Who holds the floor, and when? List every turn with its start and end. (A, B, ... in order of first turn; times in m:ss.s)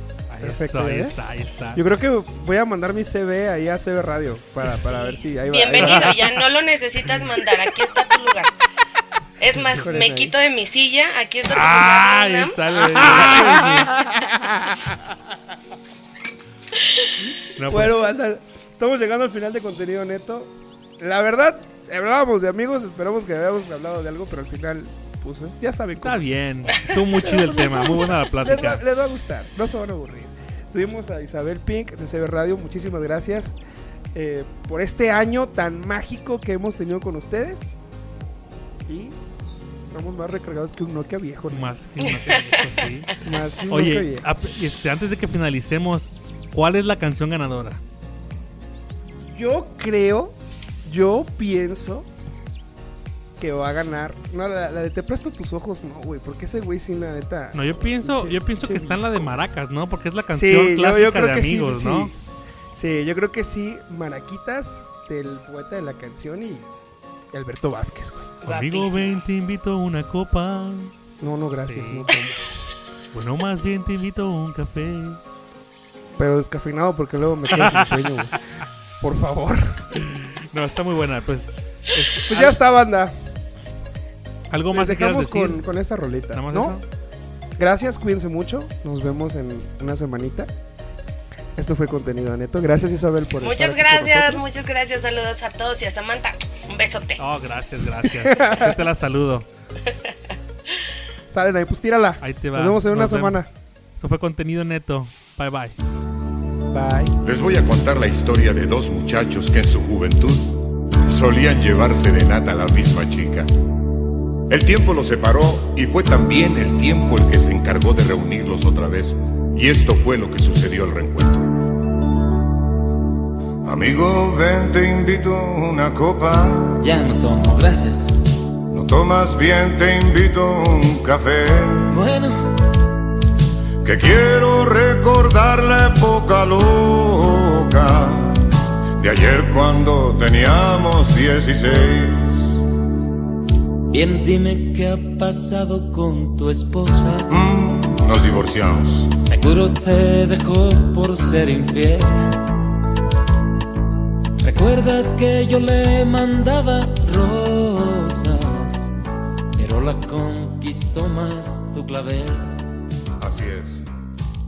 0:00.3-0:01.8 A
0:00.4-0:06.3 B
0:04.9-0:08.5 C
0:05.8-0:06.1 A
0:09.4-0:13.6 C
0:09.7-0:10.3 B
0:11.5-0:13.9 A
0:12.8-0:15.2 B
0:17.6-0:18.0 A
0:17.6-0:26.3 B
0:26.0-0:28.8 A
0:27.2-0:33.6 B
0:34.1-0:37.8 B
0:38.8-0:39.2 B
0:39.9-0:41.7 B
0:41.5-0:43.2 A
0:43.2-0:44.2 B
0:43.7-0:47.8 A
0:49.3-0:52.1 B
0:53.4-0:59.3 B
0:57.5-1:02.1 A
1:00.3-1:02.1 B
1:02.7-1:06.7 B
1:07.3-1:08.4 B
1:08.4-1:09.2 C
1:08.4-1:10.9 A
1:11.2-1:12.5 B
1:11.6-1:12.2 A
1:13.1-1:15.2 A
1:16.2-1:18.4 B
1:17.5-1:18.3 A
1:19.0-1:20.0 B
1:19.9-1:22.6 A
1:22.3-1:23.1 B
1:24.5-1:25.6 A
1:24.7-1:26.8 B
1:26.3-1:26.8 A
1:27.6-1:30.5 B
1:31.6-1:34.5 B
1:33.4-1:37.2 C
1:37.2-1:39.4 A
1:38.0-1:38.8 B
1:41.3-1:43.5 B
1:42.2-1:43.4 A
1:44.0-1:45.7 A
1:46.7-1:47.2 B
1:47.2-1:53.5 D
1:54.5-2:01.6 D
2:03.6-2:06.9 D
2:06.8-2:08.1 E
2:08.7-2:11.9 D
2:11.9-2:12.4 E
2:13.8-2:18.5 D
2:19.0-2:22.4 D
2:23.9-2:27.3 E
2:27.3-2:29.1 D
2:29.2-2:32.3 E
2:34.4-2:38.9 E
2:39.6-2:42.5 E
2:43.2-2:43.8 D